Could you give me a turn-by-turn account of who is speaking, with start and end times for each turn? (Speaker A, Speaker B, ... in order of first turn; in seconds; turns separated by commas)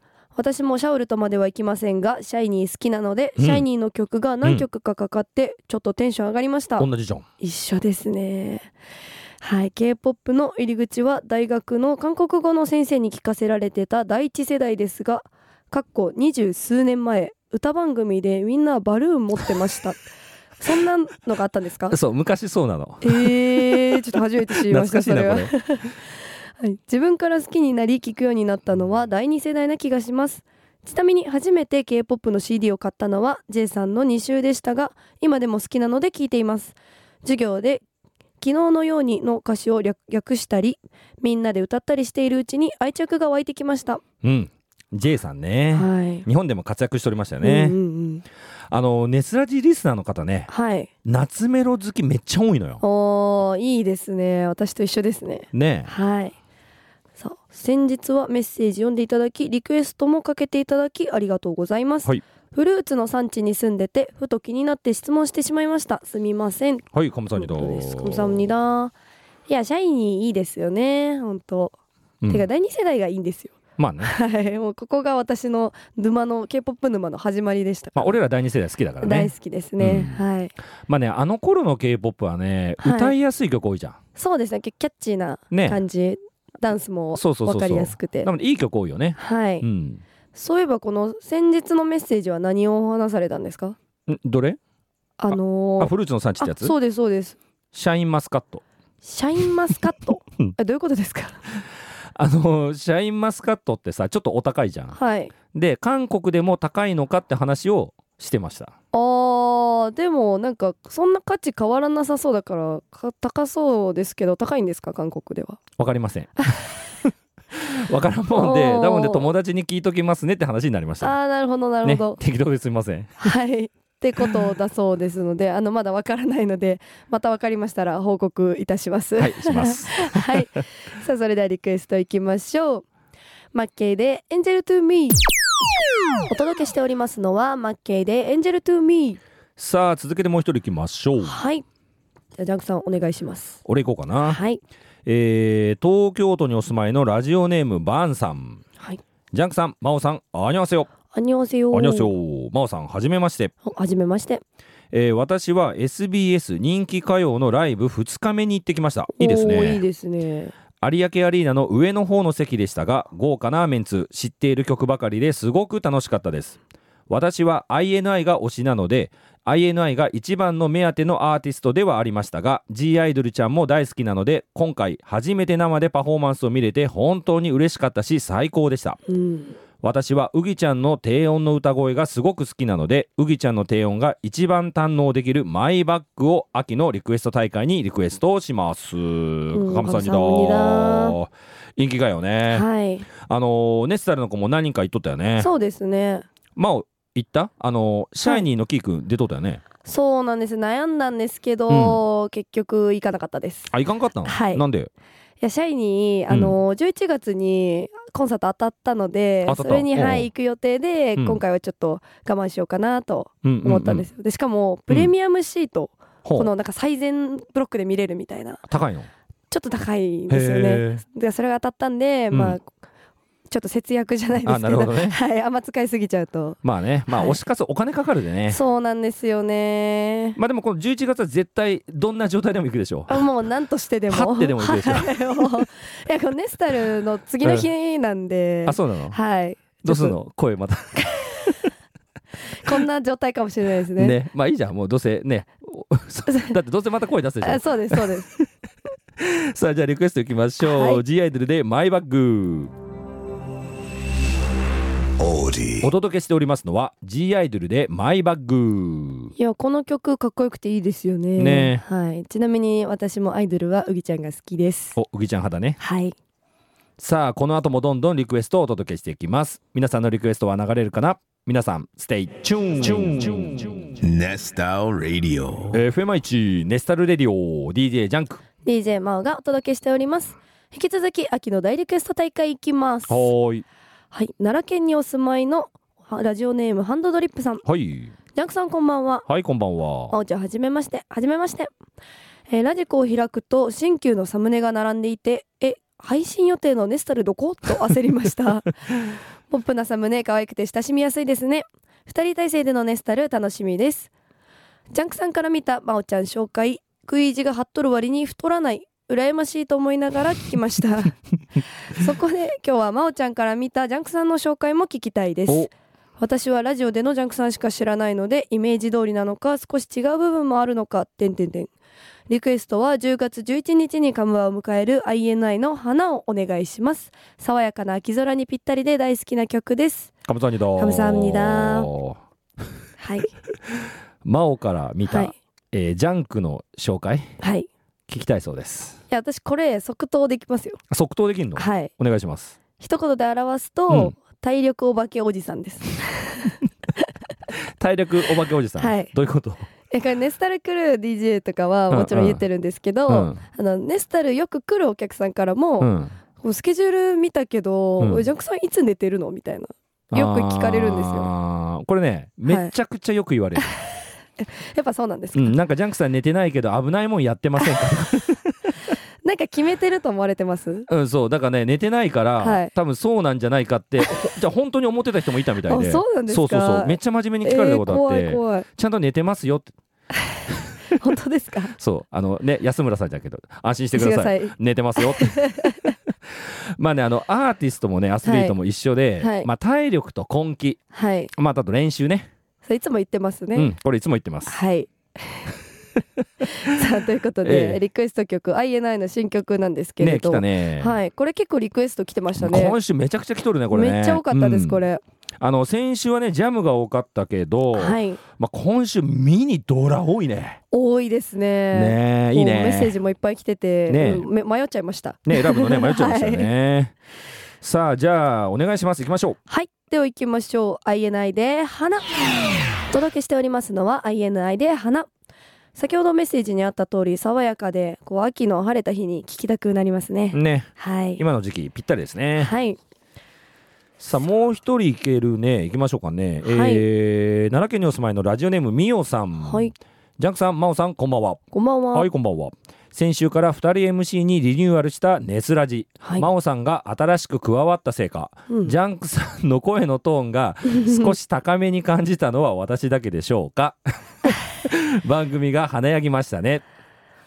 Speaker A: 0.3-6.9, Speaker B: 3.4-3.6, Speaker B: 6.8-7.2, Speaker A: 7.4-8.7, Speaker A: 9.4-20.0, Speaker A: 20.6-22.0, Speaker B: 21.9-24.0, Speaker A: 23.0-26.0, Speaker B: 24.6-25.5, Speaker A: 26.6-37.8, Speaker A: 38.4-44.0, Speaker B: 44.2-47.8, Speaker A: 45.7-46.2, Speaker A: 47.4-48.2, Speaker B: 48.7-50.5, Speaker A: 50.5-50.9, Speaker B: 51.0-52.8, Speaker A: 52.8-56.3, Speaker B: 55.5-55.9, Speaker A: 57.2-68.9, Speaker B: 66.9-68.4, Speaker A: 69.5-71.7, Speaker A: 72.3-78.2, Speaker B: 73.8-74.1, Speaker B: 78.0-80.2, Speaker A: 79.0-80.5, Speaker B: 80.9-84.0, Speaker A: 82.8-83.1, Speaker A: 84.2-88.3, Speaker B: 85.5-85.8, Speaker B: 87.2-90.0, Speaker A: 89.2-89.7, Speaker A: 90.3-93.8, Speaker B: 94.1-94.6, Speaker A: 95.2-97.4, Speaker B: 95.3-96.7, Speaker B: 97.7-98.6, Speaker A: 99.0-101.4, Speaker B: 102.1-105.0, Speaker A: 104.9-105.3, Speaker B: 105.5-108.7, Speaker A: 108.9-115.6, Speaker B: 115.8-116.5, Speaker B: 117.5-121.2, Speaker A: 118.3-119.3, Speaker A: 121.0-122.2, Speaker B: 121.8-123.3, Speaker A: 123.2-132.8, Speaker B: 129.2-130.4, Speaker A: 133.5-135.2, Speaker A: 136.3-139.2, Speaker B: 139.6-141.4, Speaker A: 141.2-141.6, Speaker A: 142.4-143.6, Speaker B: 143.6-144.4, Speaker A: 144.2-144.6, Speaker B: 145.1-148.6, Speaker B: 149.3-150.9, Speaker A: 151.1-152.1, Speaker B: 151.7-153.5, Speaker A: 153.6-154.4, Speaker B: 154.9-159.8, Speaker A: 159.2-160.5, Speaker B: 160.8-166.6, Speaker B: 167.1-179.0, Speaker A: 179.1-179.6, Speaker B: 179.8-192.7, Speaker A: 189.5-191.2, Speaker A: 192.5-193.1, Speaker B: 193.2-195.5, Speaker A: 195.4-196.2, Speaker B: 196.6-199.6, Speaker A: 199.8-203.7, Speaker B: 201.7-202.0, Speaker B: 203.7-204.9, Speaker A: 204.2-204.6, Speaker A: 205.4-218.6, Speaker B: 206.3-206.6, Speaker B: 209.4-210.3, Speaker B: 211.2-211.4, Speaker B: 213.4-214.1, Speaker B: 216.2-216.5, Speaker B: 218.7-219.1, Speaker A: 219.5-222.7, Speaker B: 220.3-221.0, Speaker B: 222.3-222.6, Speaker A: 223.5-226.6, Speaker B: 224.4-225.2, Speaker B: 226.6-228.6, Speaker A: 227.1-227.4, Speaker A: 228.5-230.4, Speaker B: 230.3-233.2, Speaker A: 233.1-240.2, Speaker B: 234.1-235.7, Speaker B: 237.4-237.7, Speaker B: 238.7-239.2, Speaker B: 239.8-241.5, Speaker A: 241.1-241.5, Speaker A: 242.5-244.2, Speaker B: 243.9-248.5, Speaker A: 247.4-248.3, Speaker B: 249.2-252.7, Speaker A: 250.6-251.0, Speaker C: 255.2-255.8, Speaker B: 255.8-259.3, Speaker A: 259.4-264.9, Speaker B: 261.4-261.8, Speaker B: 264.9-265.8, Speaker A: 265.8-266.1, Speaker B: 267.0-273.8, Speaker C: 274.0-275.7, Speaker B: 275.7-278.4, Speaker A: 278.6-283.3, Speaker B: 283.1-283.6, Speaker A: 284.1-287.6, Speaker B: 287.6-288.1, Speaker A: 288.3-289.2, Speaker B: 289.3-290.1, Speaker A: 290.1-291.7, Speaker A: 292.5-298.7, Speaker A: 299.5-304.1, Speaker A: 304.9-311.2, Speaker A: 311.9-321.7, Speaker A: 322.3-330.1, Speaker B: 330.2-332.2, Speaker A: 330.8-331.9, Speaker A: 333.0-333.3, Speaker B: 334.2-337.3, Speaker A: 335.0-335.3, Speaker A: 337.4-337.7, Speaker B: 338.1-339.0, Speaker A: 339.1-340.8, Speaker B: 340.9-342.6, Speaker A: 341.6-341.9, Speaker A: 342.8-347.0, Speaker B: 343.9-344.1, Speaker B: 347.8-349.7, Speaker A: 348.8-349.1, Speaker A: 349.9-361.3, Speaker B: 351.9-352.4, Speaker B: 353.1-353.4, Speaker B: 355.8-356.1, Speaker B: 358.0-358.3, Speaker B: 360.1-363.7, Speaker A: 362.5-362.7, Speaker A: 363.6-365.5, Speaker B: 365.3-368.8, Speaker A: 369.2-370.9, Speaker B: 370.9-379.7, Speaker A: 372.4-372.7, Speaker A: 375.6-378.7, Speaker A: 380.1-380.4, Speaker A: 380.9-381.7, Speaker B: 381.8-390.8, Speaker A: 383.9-385.9, Speaker A: 388.2-388.6, Speaker A: 389.2-389.5, Speaker A: 390.9-391.3, Speaker B: 391.3-392.3, Speaker A: 392.6-393.7, Speaker B: 393.5-394.6, Speaker A: 394.4-395.5, Speaker A: 396.4-402.8, Speaker B: 397.4-397.8, Speaker B: 400.0-401.0, Speaker B: 402.4-404.8, Speaker A: 403.7-405.0, Speaker B: 405.4-410.6, Speaker A: 407.7-408.2, Speaker A: 410.7-416.5, Speaker B: 411.7-412.9, Speaker B: 413.9-414.3, Speaker B: 415.2-416.9, Speaker B: 417.6-419.4, Speaker A: 419.5-425.1, Speaker A: 425.7-431.2, Speaker B: 430.3-432.5, Speaker A: 432.4-432.8, Speaker B: 434.0-441.4, Speaker A: 436.4-436.8, Speaker A: 439.4-439.7, Speaker A: 441.5-442.1, Speaker B: 441.9-456.6, Speaker A: 446.0-446.3, Speaker A: 448.5-448.7, Speaker A: 450.8-451.1